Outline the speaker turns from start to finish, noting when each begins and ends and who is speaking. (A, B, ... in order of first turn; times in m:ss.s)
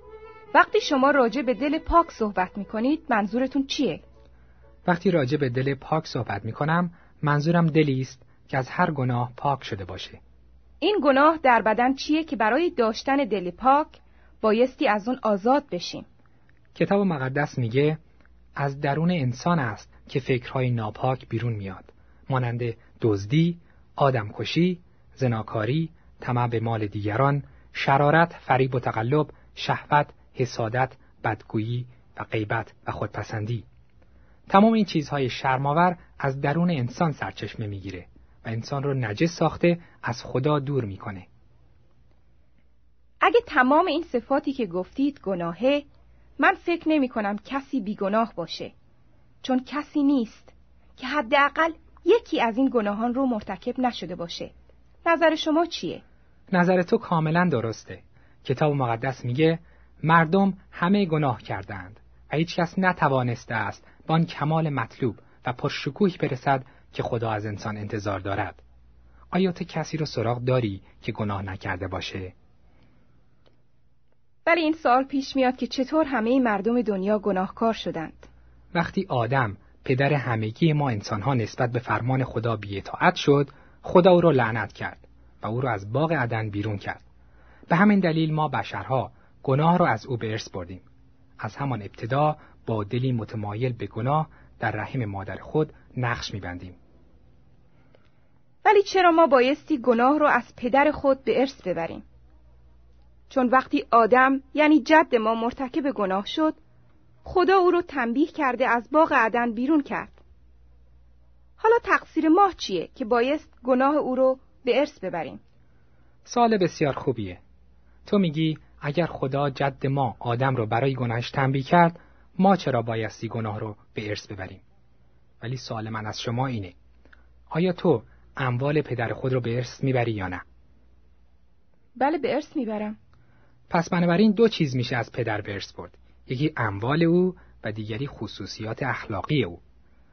0:00.5-0:04.0 A
0:04.8-0:10.2 B
0:10.8-0:16.1 A
0:16.8-0:18.0 B
0:18.6-0:33.6 B
0:34.5-0:41.3 B
0:43.2-0:45.8 A
0:46.4-0:48.7 A
0:49.4-0:54.5 A
0:55.0-0:56.0 A
0:56.5-1:08.6 B
1:09.3-1:12.3 B
1:14.5-1:18.3 A
1:18.7-1:27.0 B
1:27.7-1:30.8 B
1:31.4-1:36.8 B
1:38.6-1:42.0 A
1:43.3-1:46.6 A
1:47.2-1:50.2 A
1:51.6-1:55.4 A
1:56.3-1:57.4 B
1:58.1-2:04.6 B
2:05.4-2:06.8 B
2:07.5-2:10.4 B
2:12.0-2:13.0 A
2:13.7-2:19.6 B